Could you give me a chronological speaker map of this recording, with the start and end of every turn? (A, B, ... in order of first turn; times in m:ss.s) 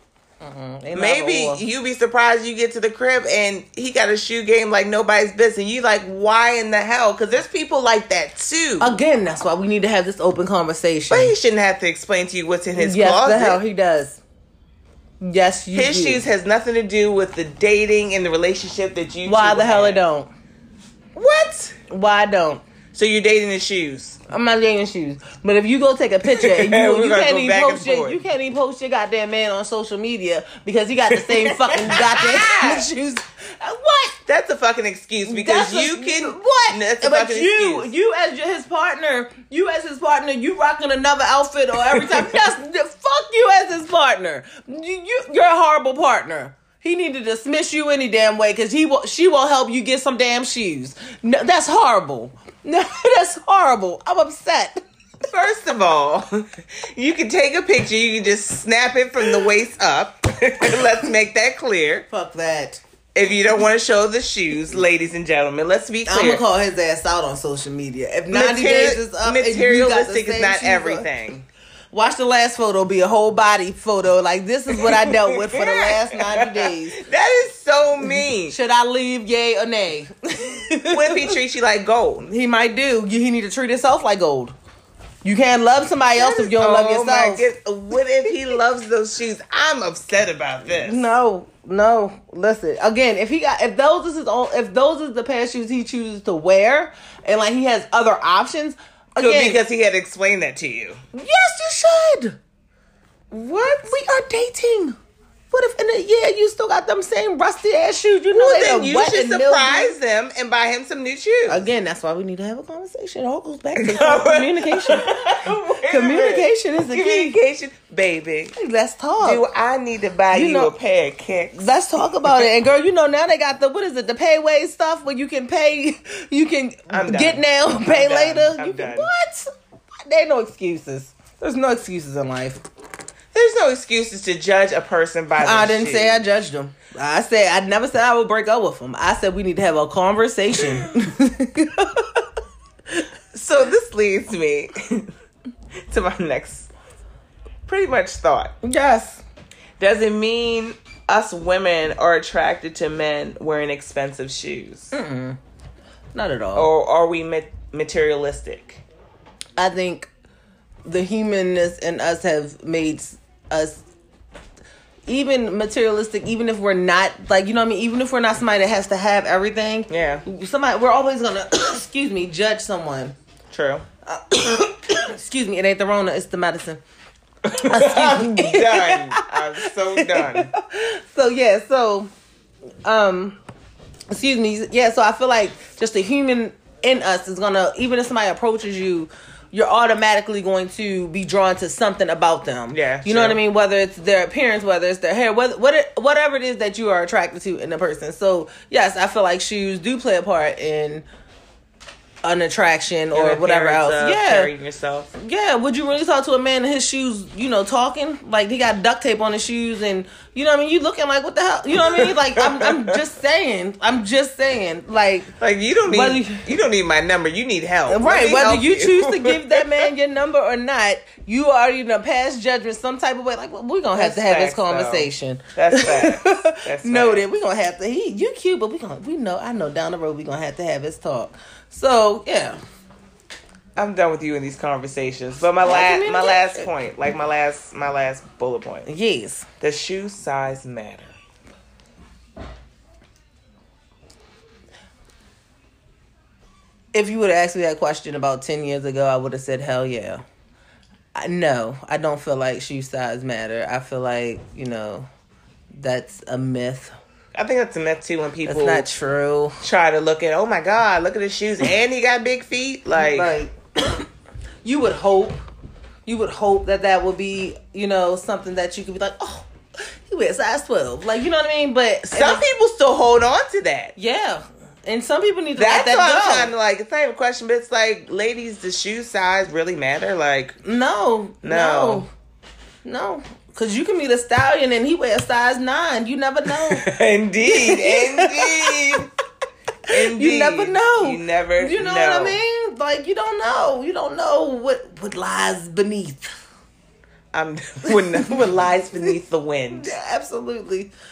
0:00.4-0:01.6 A
0:01.0-0:09.0 B
0:08.8-0:11.3 A
0:11.1-0:13.6 B
0:12.8-0:14.2 A
0:15.2-0:16.2 A
0:15.7-0:20.0 B
0:19.2-0:20.3 A
0:21.2-0:21.8 B
0:21.9-0:22.6 A
0:22.9-0:24.2 B
0:24.3-0:34.2 A
0:26.3-0:28.2 B
0:31.1-0:32.9 B
0:34.3-0:37.9 B
0:35.3-0:54.8 A
0:41.9-0:42.3 B
0:55.2-1:02.1 B
1:02.1-1:02.8 A
1:03.2-1:06.4 B
1:06.1-1:11.1 A
1:08.3-1:11.5 B
1:11.9-1:17.0 A
1:14.7-1:18.6 B
1:18.5-1:21.4 A
1:20.9-1:22.3 B
1:22.3-1:24.6 A
1:25.2-1:27.5 A
1:26.2-1:31.1 B
1:30.7-1:39.6 A
1:39.2-1:41.0 B
1:41.1-1:42.4 A
1:43.3-1:45.0 A
1:45.5-1:50.0 A
1:48.3-1:51.7 B
1:51.5-1:57.4 A
1:53.8-1:58.6 B
1:58.6-1:59.4 A
1:59.2-2:01.7 B
2:00.3-2:00.7 A
2:01.6-2:09.5 A
2:06.9-2:09.1 B
2:10.1-2:12.6 A
2:13.3-2:16.2 B
2:15.4-2:22.3 A
2:23.3-2:25.1 B
2:25.9-2:26.7 B
2:27.7-2:28.6 B
2:28.6-2:29.2 A
2:29.8-2:34.9 B
2:34.9-2:35.4 A
2:36.2-2:36.7 A
2:36.6-2:38.8 B
2:39.6-2:40.1 A
2:40.9-2:43.8 A
2:45.1-2:53.2 A
2:49.9-2:50.2 B
2:53.5-2:53.9 B
2:54.1-2:56.8 A
2:57.4-3:00.5 B
2:57.6-3:02.1 A
3:02.8-3:03.4 A
3:04.1-3:21.1 A
3:12.7-3:13.4 B
3:22.2-3:24.5 A
3:23.1-3:25.1 B
3:25.2-3:35.3 A
3:31.8-3:33.0 B
3:35.4-3:39.9 B
3:35.9-3:36.4 A
3:37.9-3:52.6 A
3:44.0-3:47.3 B
3:53.8-3:58.9 B
3:55.6-3:56.7 A
3:58.9-3:59.5 A
3:59.6-4:01.2 B
4:06.9-4:10.2 A
4:11.2-4:15.1 A
4:15.8-4:16.9 A
4:17.3-4:18.9 B
4:18.5-4:19.6 A
4:19.6-4:23.3 B
4:23.0-4:24.1 A
4:24.6-4:25.4 A
4:26.1-4:29.5 A
4:30.1-4:32.4 A
4:32.1-4:34.0 B
4:34.0-4:36.5 A
4:35.6-4:40.6 B
4:40.6-4:42.1 A
4:41.4-4:42.0 B
4:42.8-4:46.8 A
4:46.6-4:49.1 B
4:47.4-4:49.0 A
4:49.9-4:52.4 B
4:49.9-4:56.3 A
4:57.3-4:59.9 B
4:57.9-4:58.4 A
4:59.7-5:00.9 A